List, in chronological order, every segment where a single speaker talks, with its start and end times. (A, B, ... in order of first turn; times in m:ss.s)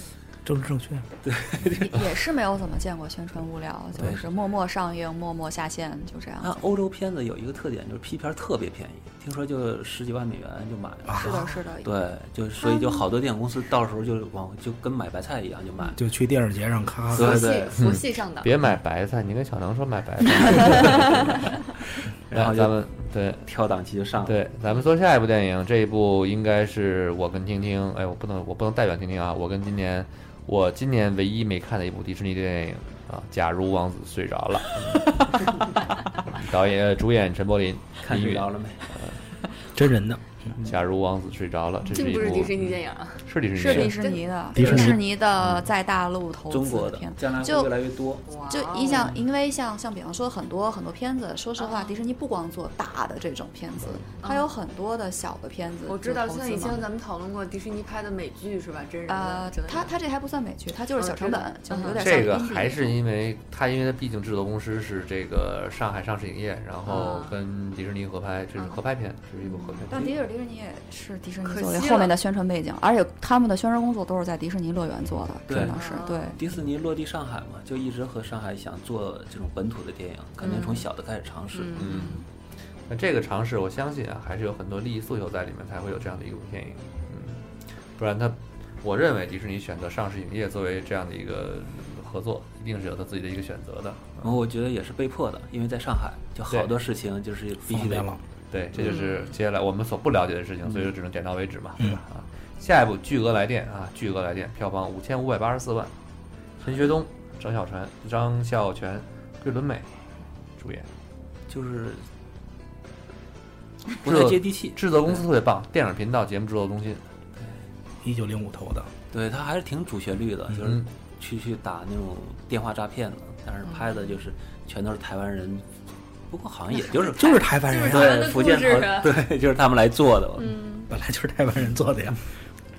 0:00.4-0:01.1 A
0:01.2-0:02.1 B
0:01.8-0:06.6 C
0:04.0-0:04.3 B
0:06.4-0:16.0 B
0:11.2-0:11.9 C
0:16.0-0:17.5 A
0:17.1-0:18.5 D
0:17.1-0:17.8 B
0:17.7-0:21.5 E
0:22.3-0:23.4 E
0:22.3-0:22.8 B
0:23.4-0:24.4 B
0:24.2-0:35.5 E
0:36.3-0:39.2 E
0:38.0-0:38.8 B
0:39.7-0:40.2 A
0:40.6-0:43.9 E
0:41.9-0:44.2 D
0:43.5-0:47.7 C
0:44.5-0:45.0 A
0:44.6-0:44.9 B
0:46.5-0:48.2 B
0:48.3-0:49.1 D
0:48.5-0:56.8 C
0:51.6-0:51.9 D
0:54.2-0:54.5 D
0:55.8-0:59.9 D
0:59.1-1:03.0 C
1:01.0-1:02.1 D
1:02.0-1:10.1 E
1:06.8-1:07.3 D
1:09.4-1:09.8 D
1:09.9-1:16.4 C
1:11.4-1:12.1 D
1:15.5-1:15.8 B
1:15.6-1:16.3 D
1:16.3-1:22.1 B
1:20.4-1:20.8 D
1:21.5-1:22.2 D
1:21.8-1:22.2 E
1:22.9-1:34.3 E
1:34.2-1:38.1 B
1:36.5-1:36.7 E
1:37.6-1:38.2 A
1:38.5-1:45.9 E
1:46.6-1:49.9 E
1:50.6-1:50.9 E
1:51.5-1:52.0 B
1:54.0-1:55.2 B
1:54.0-1:57.0 E
1:58.0-1:58.9 A
1:59.1-2:05.6 B
2:06.3-2:10.6 B
2:07.2-2:08.3 A
2:07.5-2:09.2 D
2:10.4-2:10.9 D
2:10.9-2:12.2 A